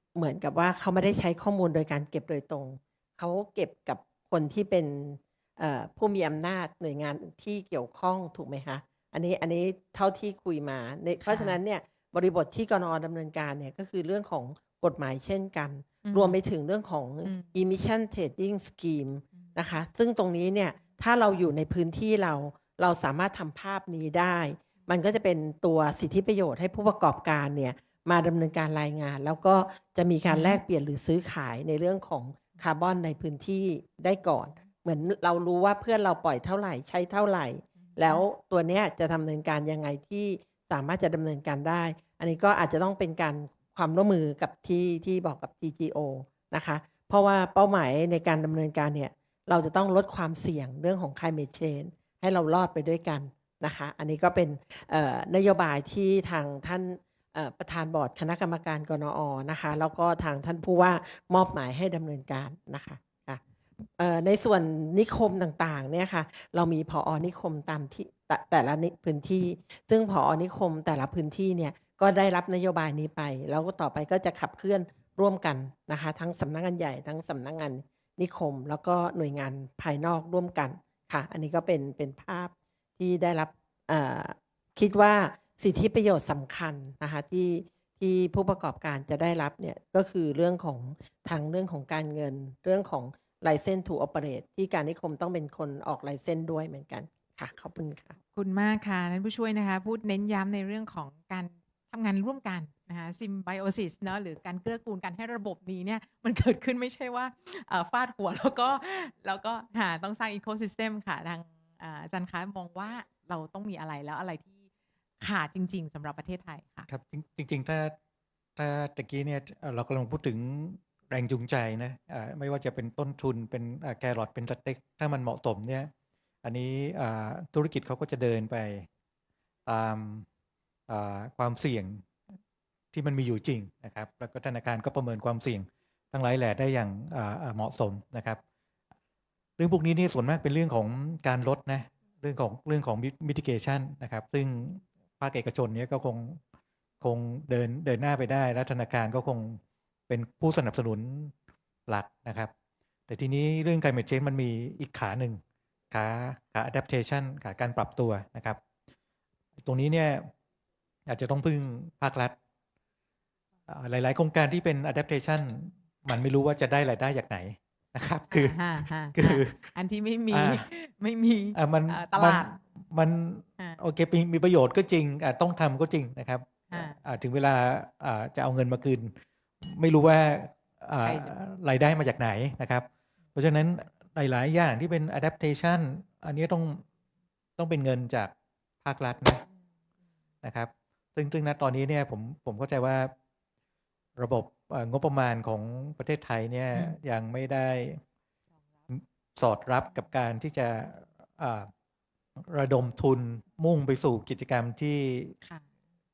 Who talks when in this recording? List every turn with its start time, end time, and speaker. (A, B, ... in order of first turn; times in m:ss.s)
0:00.2-1:03.4 A
0:11.2-0:11.6 B
0:16.0-0:16.4 B
0:17.2-0:17.6 B
0:30.3-0:30.6 B
0:37.9-0:38.3 B
1:04.0-1:38.2 A
1:38.3-1:54.6 B
1:55.2-1:56.9 B
1:56.9-1:57.9 C
1:58.6-2:05.9 C
2:06.4-2:08.9 C
2:09.7-2:10.3 C
2:10.9-2:12.0 C
2:12.9-2:18.4 C
2:19.6-2:26.4 C
2:27.0-2:31.3 C
2:31.9-2:32.5 C
2:33.1-2:35.4 C
2:35.9-2:38.6 C
2:39.6-2:40.3 C
2:41.1-2:42.4 C
2:43.7-2:48.6 C
2:48.3-2:52.6 B
2:49.1-2:49.6 C
2:50.3-2:50.7 C
2:51.6-2:59.2 C
2:56.7-2:57.0 B
2:59.7-3:06.8 C
3:01.0-3:01.3 B
3:07.6-3:08.3 C
3:08.8-3:09.4 C
3:10.4-3:13.1 C
3:14.2-3:18.0 C
3:18.9-3:21.7 C
3:22.5-3:25.3 C